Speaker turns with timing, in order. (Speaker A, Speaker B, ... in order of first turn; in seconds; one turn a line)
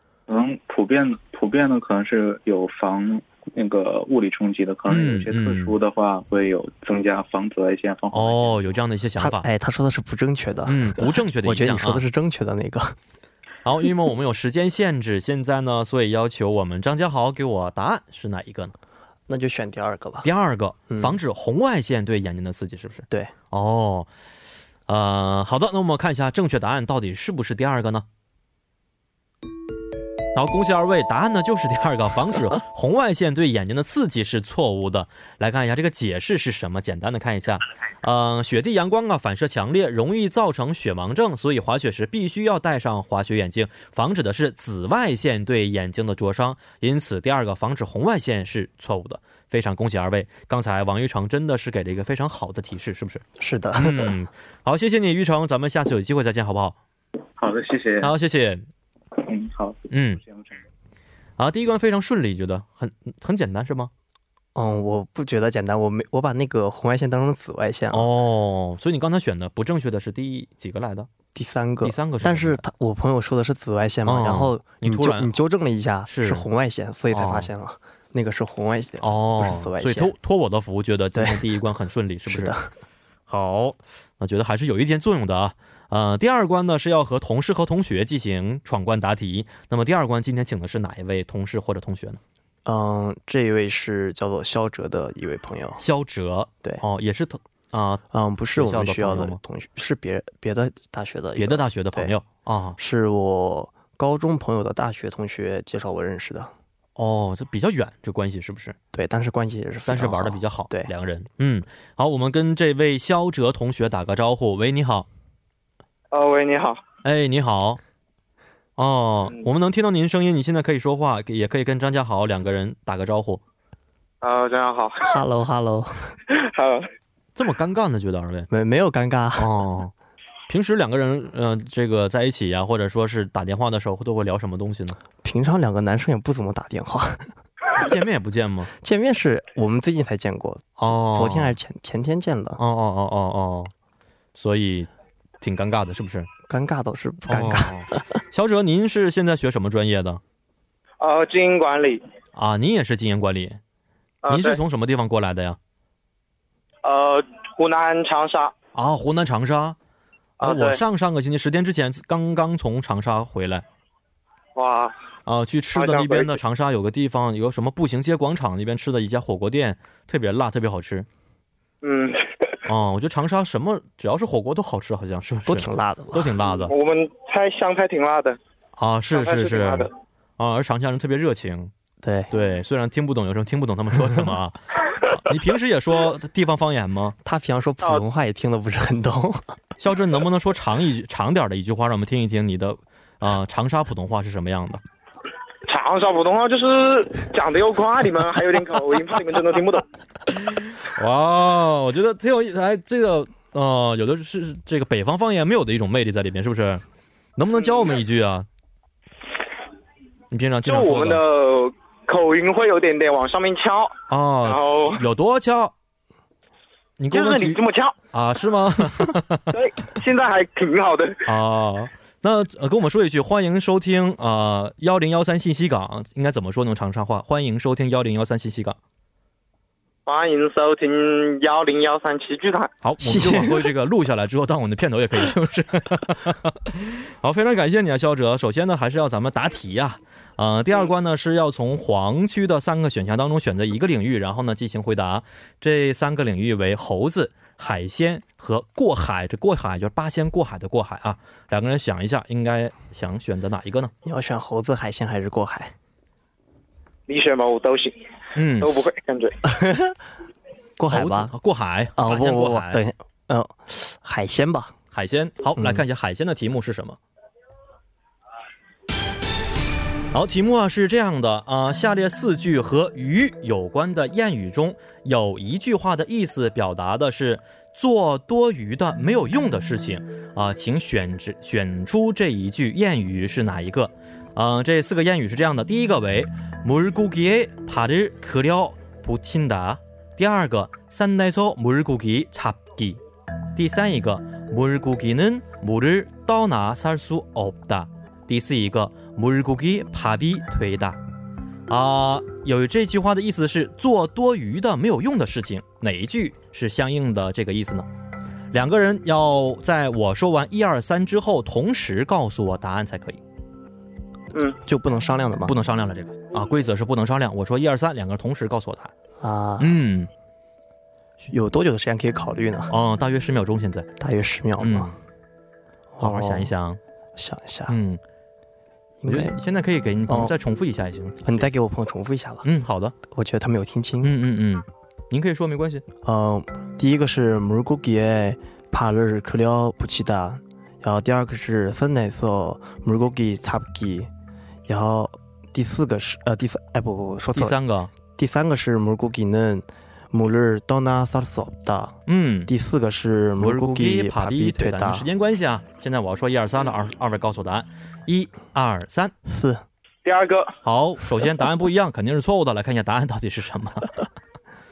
Speaker A: 0.3-8.6
Speaker B: 4.9-5.8
Speaker B: 8.1-9.5
Speaker C: 9.2-13.0
Speaker B: 10.7-12.0
Speaker B: 13.6-18.8
Speaker C: 19.3-20.3
Speaker B: 20.2-24.1
Speaker C: 20.9-21.2
Speaker B: 24.9-28.1
Speaker B: 30.4-53.2
Speaker C: 53.4-54.2
Speaker B: 53.8-56.8
Speaker A: 57.4-58.1
Speaker B: 58.0-58.7
Speaker A: 59.2-60.6
Speaker B: 59.9-60.2
Speaker B: 61.4-63.9
Speaker C: 64.5-68.1
Speaker B: 67.9-71.1
Speaker C: 71.3-80.1
Speaker B: 71.8-72.6
Speaker B: 74.1-75.3
Speaker B: 76.1-76.5
Speaker B: 77.1-77.5
Speaker B: 79.0-82.6
Speaker C: 81.2-81.5
Speaker C: 82.3-82.7
Speaker B: 83.3-92.2
Speaker C: 92.7-95.8
Speaker B: 95.8-98.0
Speaker C: 98.1-102.1
Speaker B: 98.5-99.4
Speaker B: 101.4-102.8
Speaker C: 102.8-106.5
Speaker B: 107.0-108.8
Speaker C: 108.9-110.9
Speaker B: 109.9-115.1
Speaker D: 116.1-116.8
Speaker B: 117.0-117.8
Speaker B: 118.8-123.4
Speaker D: 124.2-125.1
Speaker C: 125.0-126.0
Speaker D: 126.3-126.8
Speaker B: 127.3-128.5
Speaker C: 128.5-129.5
Speaker B: 129.4-129.9
Speaker B: 130.5-135.0
Speaker C: 135.2-137.3
Speaker B: 137.7-138.7
Speaker C: 138.8-142.6
Speaker B: 140.8-141.6
Speaker B: 142.6-143.7
Speaker B: 144.3-144.9
Speaker B: 145.4-146.3
Speaker C: 146.5-148.0
Speaker B: 147.3-150.2
Speaker D: 151.0-152.0
Speaker B: 152.3-153.6
Speaker D: 154.2-154.6
Speaker B: 154.3-155.6
Speaker D: 156.8-158.5
Speaker B: 158.8-159.8
Speaker D: 160.4-160.8
Speaker B: 160.4-163.7
Speaker D: 164.6-164.9
Speaker B: 165.3-171.1
Speaker D: 165.8-166.4
Speaker D: 171.8-172.6
Speaker B: 172.7-176.7
Speaker C: 175.5-176.3
Speaker D: 176.6-178.4
Speaker B: 178.8-181.7
Speaker D: 179.1-179.9
Speaker C: 182.0-182.3
Speaker B: 182.3-187.2
Speaker C: 187.2-189.4
Speaker B: 189.8-194.8
Speaker D: 195.7-199.9
Speaker B: 200.4-206.8
Speaker B: 207.4-208.5
Speaker B: 210.3-211.2
Speaker D: 210.7-215.0
Speaker B: 214.1-215.7
Speaker B: 217.0-217.6
Speaker D: 217.1-217.9
Speaker B: 218.1-219.6
Speaker D: 219.5-221.2
Speaker B: 221.3-228.8
Speaker D: 230.1-232.7
Speaker B: 232.8-253.9
Speaker C: 233.0-233.7
Speaker C: 254.1-255.7
Speaker D: 257.1-258.0
Speaker B: 258.4-258.8
Speaker D: 258.6-259.4
Speaker C: 259.4-260.0
Speaker C: 260.8-261.3
Speaker B: 260.9-262.8
Speaker C: 262.0-264.8
Speaker B: 264.9-267.0
Speaker C: 265.6-265.8
Speaker B: 270.1-293.0
Speaker B: 293.6-301.0
Speaker B: 301.7-307.9
Speaker B: 308.5-313.2
Speaker C: 314.6-315.5
Speaker B: 315.4-318.9
Speaker C: 319.2-319.8
Speaker B: 319.6-320.1
Speaker C: 321.3-322.7
Speaker B: 322.7-323.9
Speaker C: 324.0-324.9
Speaker B: 324.6-324.9
Speaker C: 325.9-326.5
Speaker B: 326.0-326.8
Speaker C: 327.2-327.8
Speaker B: 327.7-328.0
Speaker C: 329.0-329.4
Speaker B: 329.1-331.6
Speaker C: 330.1-330.4
Speaker C: 331.2-332.4
Speaker B: 332.4-332.9
Speaker C: 333.1-334.1
Speaker B: 334.0-335.9
Speaker C: 336.0-344.1
Speaker C: 344.7-347.6
Speaker B: 347.3-347.9
Speaker C: 348.2-355.1
Speaker B: 352.1-352.5
Speaker B: 353.4-359.1
Speaker C: 359.3-359.6
Speaker D: 360.1-360.6
Speaker B: 360.6-363.9